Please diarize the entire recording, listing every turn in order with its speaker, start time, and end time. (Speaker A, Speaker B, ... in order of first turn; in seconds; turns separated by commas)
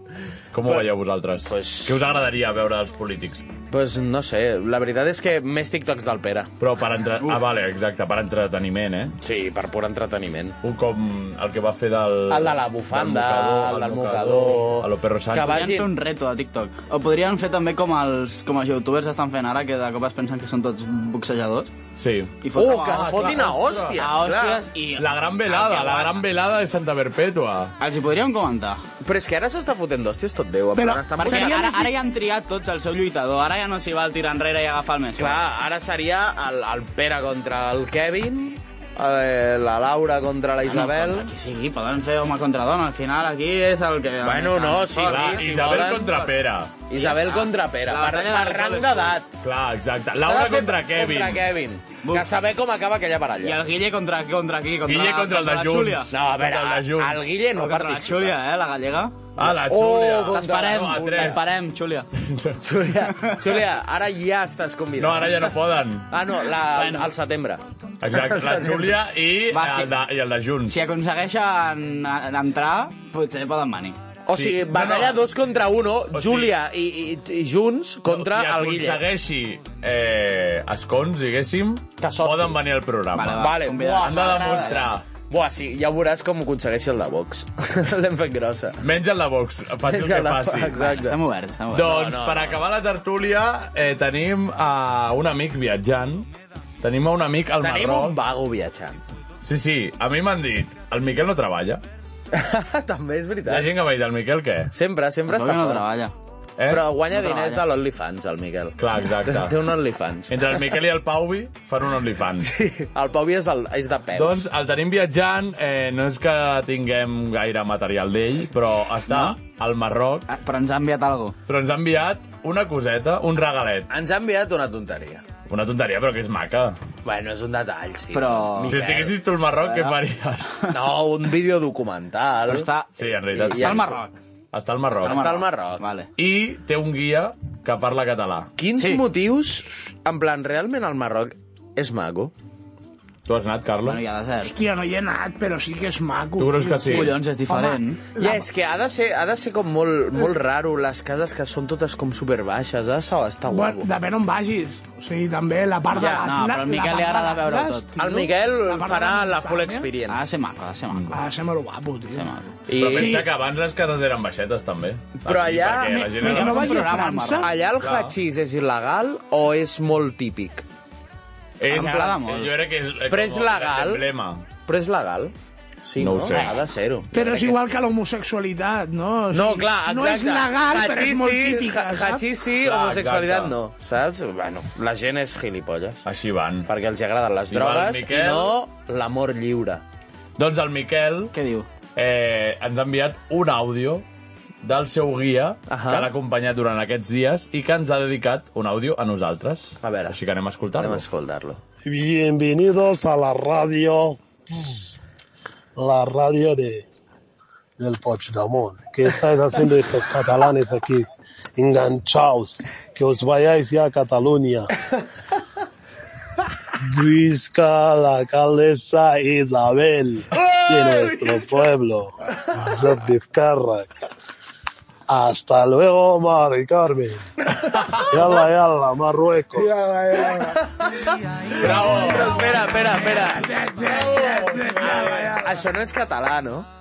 Speaker A: 0.5-3.5, Speaker B: 1.4-2.0, Speaker B: 3.7-6.5, Speaker A: 6.6-9.2, Speaker B: 9.2-10.6, Speaker A: 10.6-15.7, Speaker B: 12.3-15.9, Speaker C: 15.4-21.7, Speaker A: 22.0-24.1, Speaker C: 22.4-26.2, Speaker B: 22.6-24.7, Speaker A: 25.0-27.7, Speaker C: 27.8-28.8, Speaker B: 29.0-31.8, Speaker D: 30.8-31.9, Speaker C: 31.2-35.4, Speaker B: 35.2-41.3, Speaker C: 40.6-45.6, Speaker B: 44.2-46.3, Speaker A: 45.0-46.8, Speaker B: 46.9-49.3, Speaker C: 47.0-49.2, Speaker A: 49.4-51.5, Speaker B: 50.1-53.6, Speaker C: 52.0-52.3, Speaker C: 53.4-56.1, Speaker A: 54.9-57.3, Speaker B: 56.1-58.4, Speaker C: 57.5-59.2, Speaker A: 59.4-61.4, Speaker B: 59.4-61.4, Speaker C: 60.3-62.1, Speaker A: 62.2-62.6, Speaker B: 62.6-65.5, Speaker A: 65.0-66.1, Speaker B: 66.1-69.0, Speaker C: 66.7-67.1, Speaker A: 68.0-70.8, Speaker C: 69.5-69.9, Speaker C: 70.7-74.0, Speaker B: 74.3-79.0, Speaker A: 74.3-75.2, Speaker A: 76.1-76.6, Speaker A: 78.1-85.0, Speaker B: 82.0-82.6, Speaker C: 83.1-84.9, Speaker B: 83.4-88.8, Speaker A: 88.8-90.8, Speaker B: 89.9-91.2, Speaker C: 90.7-92.1, Speaker A: 91.7-96.3, Speaker B: 91.8-92.6, Speaker A: 96.8-98.2, Speaker B: 97.6-99.0, Speaker A: 99.4-101.8, Speaker B: 102.3-103.7, Speaker A: 103.5-104.7, Speaker B: 104.7-105.9, Speaker C: 105.3-106.1, Speaker A: 106.6-106.9, Speaker B: 106.7-110.7, Speaker C: 107.1-107.7, Speaker A: 108.8-109.7, Speaker A: 110.3-112.5, Speaker B: 112.4-114.3, Speaker A: 114.1-120.3, Speaker C: 119.1-119.4, Speaker C: 120.3-121.4, Speaker A: 121.5-123.9, Speaker B: 123.9-125.2, Speaker A: 125.5-126.8, Speaker B: 127.0-129.2, Speaker C: 128.1-128.8, Speaker A: 128.7-130.7, Speaker C: 129.6-130.0, Speaker B: 130.7-132.7, Speaker C: 132.5-134.2, Speaker A: 133.0-133.9, Speaker B: 133.3-134.0, Speaker A: 134.5-135.3, Speaker B: 135.0-135.8, Speaker C: 135.0-136.1, Speaker A: 136.2-138.5, Speaker B: 138.6-142.3, Speaker C: 138.8-139.1, Speaker A: 143.2-144.0, Speaker C: 143.8-144.5, Speaker D: 144.4-148.5, Speaker A: 146.4-147.2, Speaker C: 146.9-148.0, Speaker B: 148.2-153.9, Speaker D: 153.5-159.9, Speaker B: 155.9-156.4, Speaker C: 156.0-157.9, Speaker B: 158.0-160.2, Speaker C: 160.1-161.2, Speaker D: 161.1-162.3, Speaker C: 162.1-162.5, Speaker B: 162.7-163.2, Speaker A: 162.7-166.8, Speaker D: 162.8-163.3, Speaker B: 165.2-166.5, Speaker D: 166.1-167.5, Speaker C: 166.2-168.0, Speaker B: 167.4-170.6, Speaker A: 167.8-168.1, Speaker A: 171.6-174.5, Speaker C: 171.7-172.5, Speaker B: 171.7-172.2, Speaker B: 173.1-174.0, Speaker B: 174.7-177.7, Speaker A: 176.0-176.6, Speaker D: 177.1-182.2, Speaker B: 179.3-186.0, Speaker A: 182.6-183.6, Speaker A: 186.1-186.7, Speaker B: 186.7-189.8, Speaker A: 187.5-188.6, Speaker A: 190.4-191.3, Speaker C: 191.3-191.7, Speaker A: 191.9-194.1, Speaker A: 194.6-201.1, Speaker B: 195.7-196.1, Speaker B: 199.8-200.2, Speaker B: 200.8-201.6, Speaker E: 201.8-204.9, Speaker E: 205.8-206.9, Speaker E: 207.8-214.7, Speaker E: 216.8-223.9, Speaker B: 220.3-221.7, Speaker E: 225.1-227.2, Speaker A: 227.7-228.1, Speaker E: 228.1-229.7, Speaker B: 230.1-234.2, Speaker A: 231.5-232.5, Speaker D: 232.8-235.6, Speaker A: 233.8-235.1, Speaker B: 234.8-236.7